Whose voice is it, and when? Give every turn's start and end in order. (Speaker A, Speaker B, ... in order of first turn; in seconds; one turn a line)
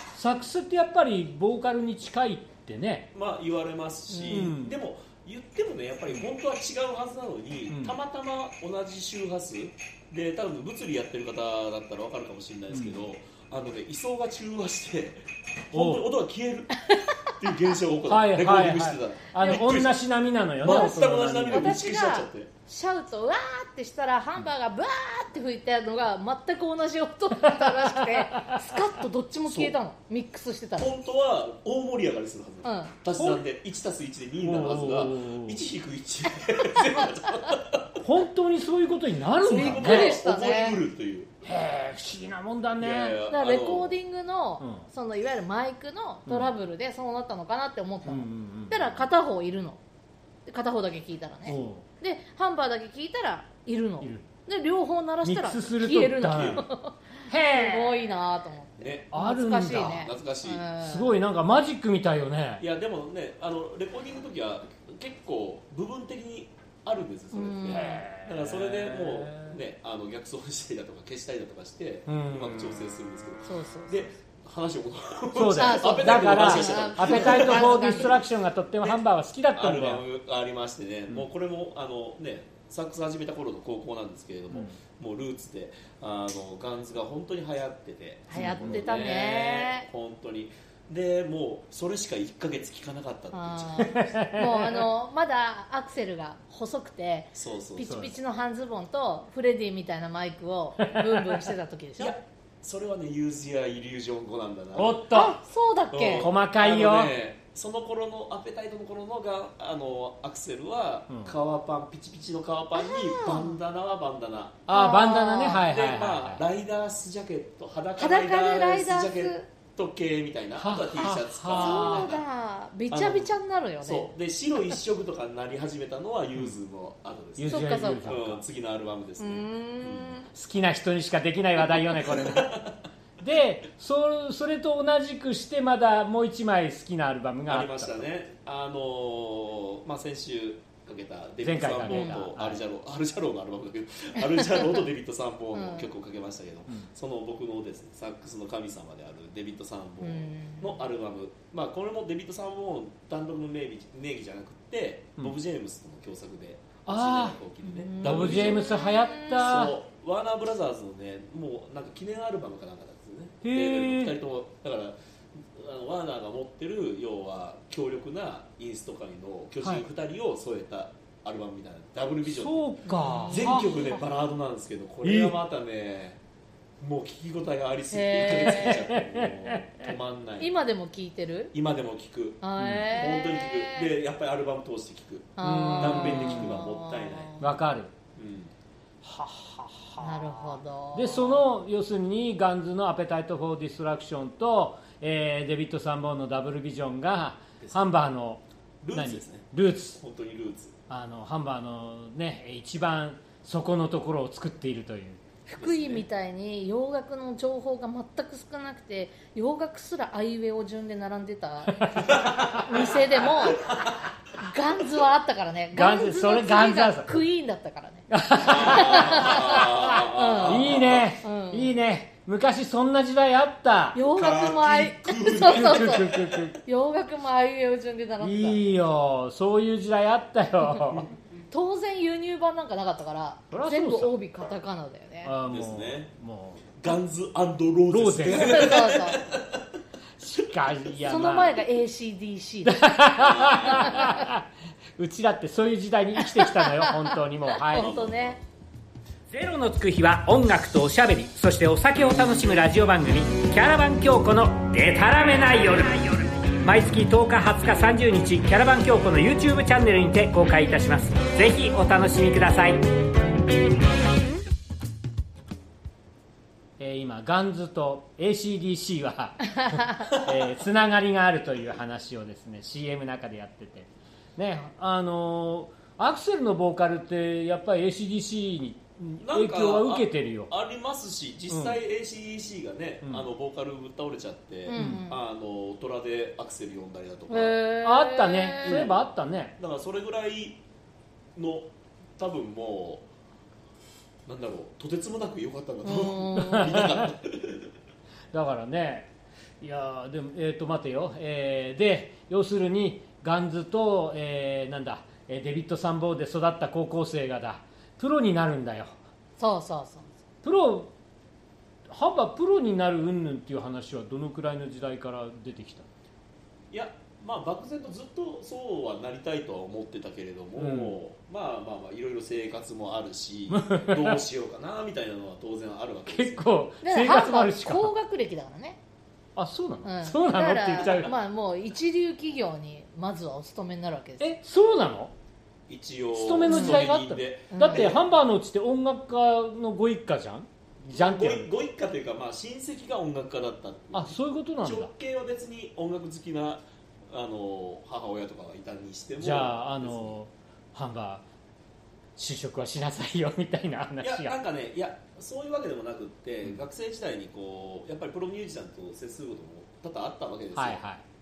Speaker A: 0.1-3.1
Speaker B: 3.1-20.0
Speaker C: 4.1-4.5
Speaker A: 4.3-4.8
Speaker A: 7.7-8.0
Speaker A: 12.7-13.0
Speaker A: 15.7-16.1
Speaker A: 18.1-21.8
Speaker B: 20.6-22.5
Speaker C: 20.7-30.9
Speaker A: 27.4-28.6
Speaker B: 30.8-38.0
Speaker C: 32.6-33.0
Speaker A: 33.2-33.4
Speaker A: 34.4-35.6
Speaker A: 38.0-40.2
Speaker B: 39.4-41.4
Speaker C: 39.5-40.8
Speaker A: 41.4-43.2
Speaker B: 42.8-44.0
Speaker C: 43.3-49.8
Speaker A: 46.3-46.5
Speaker A: 48.1-49.0
Speaker C: 50.5-61.1
Speaker A: 51.5-51.9
Speaker A: 54.0-54.3
Speaker A: 55.2-56.7
Speaker B: 56.3-56.6
Speaker A: 57.3-58.1
Speaker B: 58.8-59.1
Speaker A: 59.1-60.1
Speaker B: 59.6-60.6
Speaker A: 60.8-62.6
Speaker B: 62.6-78.2
Speaker C: 67.3-68.0
Speaker A: 67.7-69.6
Speaker A: 72.1-72.9
Speaker C: 73.5-74.1
Speaker A: 75.3-80.0
Speaker C: 75.6-78.2
Speaker B: 79.5-94.1
Speaker C: 88.3-89.9
Speaker A: 88.3-88.8
Speaker C: 93.3-102.2
Speaker A: 93.8-94.9
Speaker B: 97.3-98.1
Speaker A: 100.8-101.5
Speaker B: 102.0-105.0
Speaker A: 104.8-105.4
Speaker C: 105.1-106.3
Speaker B: 105.9-114.6
Speaker A: 106.2-107.1
Speaker A: 111.1-111.3
Speaker C: 112.8-113.6
Speaker A: 114.7-116.4
Speaker C: 114.7-115.6
Speaker B: 115.6-122.2
Speaker C: 118.0-119.5
Speaker A: 120.6-122.2
Speaker C: 121.5-124.1
Speaker B: 122.9-130.2
Speaker A: 127.4-128.4
Speaker C: 127.5-128.2
Speaker C: 129.2-130.3
Speaker A: 130.3-132.7
Speaker B: 131.7-132.8
Speaker A: 133.2-138.1
Speaker B: 137.5-158.7
Speaker A: 141.4-142.6
Speaker C: 141.9-142.2
Speaker C: 145.5-145.9
Speaker C: 150.0-150.8
Speaker A: 156.9-157.4
Speaker C: 157.6-159.5
Speaker A: 158.0-159.8
Speaker B: 159.3-172.7
Speaker A: 163.4-164.2
Speaker A: 172.3-174.0
Speaker C: 172.9-173.8
Speaker B: 173.3-176.2
Speaker A: 175.0-175.4
Speaker B: 176.8-180.6
Speaker C: 177.9-178.8
Speaker A: 178.4-179.9
Speaker C: 180.4-181.5
Speaker B: 181.5-187.4
Speaker C: 182.4-183.9
Speaker A: 182.6-182.9
Speaker C: 185.4-187.5
Speaker A: 185.4-186.6
Speaker A: 187.4-187.9
Speaker B: 188.2-188.5
Speaker A: 189.0-198.4
Speaker C: 190.0-191.4
Speaker B: 198.8-200.8
Speaker A: 198.9-200.0
Speaker A: 200.9-205.2
Speaker C: 205.5-213.8
Speaker B: 205.5-206.1
Speaker A: 211.7-212.7
Speaker B: 213.6-213.9
Speaker C: 214.4-221.8
Speaker A: 215.8-217.2
Speaker A: 218.1-224.0
Speaker B: 218.4-221.1
Speaker C: 223.9-228.6
Speaker B: 224.1-226.2
Speaker A: 225.2-226.6
Speaker A: 228.2-231.1
Speaker C: 231.5-235.3
Speaker A: 233.5-234.1
Speaker A: 235.2-236.8
Speaker B: 235.5-236.1
Speaker B: 236.8-239.7
Speaker A: 237.9-239.0
Speaker C: 238.3-239.3
Speaker A: 240.2-241.6
Speaker C: 241.0-244.3
Speaker A: 242.7-244.4
Speaker B: 243.2-244.3
Speaker A: 245.0-247.9
Speaker C: 246.2-248.4
Speaker B: 247.7-248.4
Speaker A: 249.3-262.8
Speaker A: 266.8-280.5
Speaker B: 279.2-287.6
Speaker A: 281.5-281.8
Speaker C: 284.7-285.2
Speaker A: 284.7-285.1
Speaker C: 287.3-288.9
Speaker A: 287.8-289.6
Speaker B: 288.6-289.1
Speaker B: 289.6-290.6
Speaker B: 291.4-293.1
Speaker B: 294.3-297.7
Speaker C: 295.8-296.8
Speaker A: 296.4-297.1
Speaker A: 298.3-299.1
Speaker A: 299.6-309.0
Speaker C: 309.4-310.2
Speaker A: 310.4-310.9
Speaker A: 311.9-315.9
Speaker B: 316.7-326.5
Speaker A: 320.6-321.0
Speaker A: 323.5-324.2
Speaker A: 326.1-327.9
Speaker C: 326.8-328.8
Speaker A: 329.4-331.1
Speaker C: 329.9-334.3
Speaker A: 334.2-335.1
Speaker B: 335.7-338.1
Speaker A: 336.1-341.5
Speaker C: 336.5-336.9
Speaker C: 337.5-337.9
Speaker B: 340.9-350.2
Speaker A: 343.9-344.9
Speaker A: 349.2-351.2
Speaker A: 352.2-354.4
Speaker B: 354.0-360.8
Speaker A: 360.5-361.0